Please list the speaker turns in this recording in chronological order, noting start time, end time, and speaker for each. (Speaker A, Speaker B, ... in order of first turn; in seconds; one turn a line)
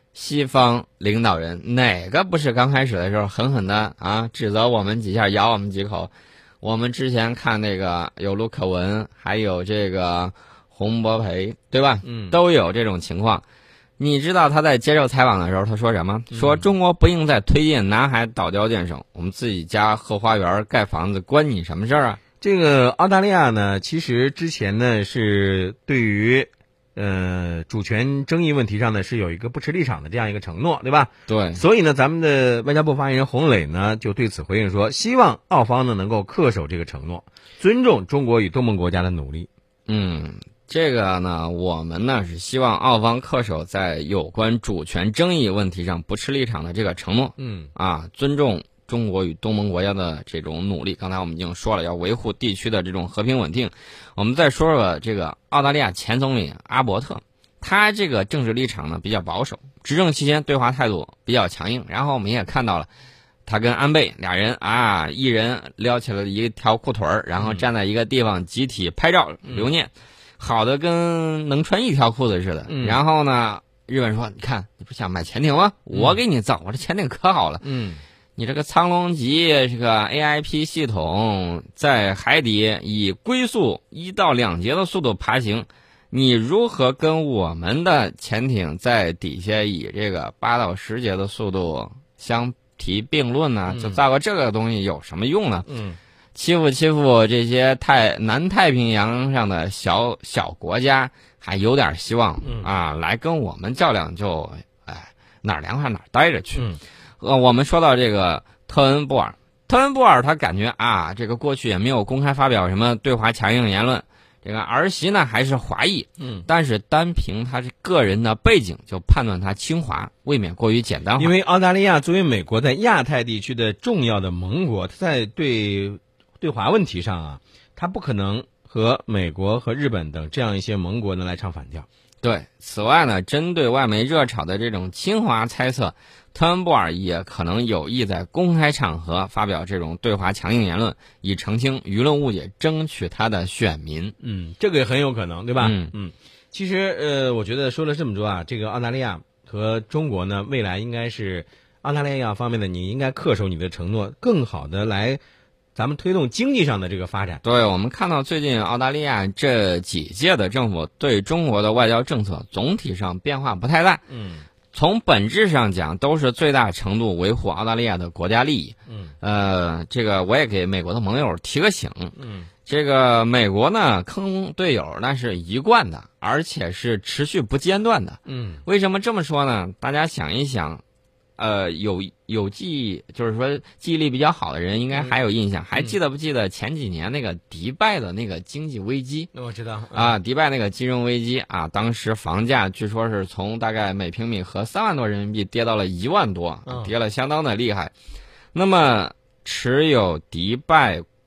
Speaker A: 0.1-6.1
Speaker A: 6.6-13.4
Speaker B: 12.0-12.4
Speaker A: 14.0-22.2
Speaker B: 16.3-16.7
Speaker B: 22.4-39.5
Speaker A: 31.3-31.6
Speaker A: 39.9-62.9
Speaker B: 47.4-47.7
Speaker A: 63.5-77.6
Speaker B: 67.4-67.7
Speaker B: 72.7-73.0
Speaker B: 75.9-76.2
Speaker B: 77.6-78.0
Speaker A: 78.3-95.7
Speaker B: 93.7-94.0
Speaker B: 95.7-96.0
Speaker A: 96.3-106.7
Speaker B: 102.4-102.7
Speaker B: 106.5-106.8
Speaker A: 107.2-121.3
Speaker B: 116.2-116.5
Speaker B: 121.2-131.8
Speaker A: 132.2-144.1
Speaker B: 144.2-155.2
Speaker A: 145.6-145.9
Speaker B: 155.8-157.4
Speaker A: 157.4-164.0
Speaker B: 164.1-164.5
Speaker A: 164.7-172.1
Speaker B: 168.9-169.1
Speaker B: 172.2-172.5
Speaker A: 172.7-180.8
Speaker B: 178.2-178.6
Speaker A: 181.4-189.3
Speaker B: 189.3-190.2
Speaker A: 189.9-197.9
Speaker B: 196.6-196.9
Speaker A: 198.5-201.0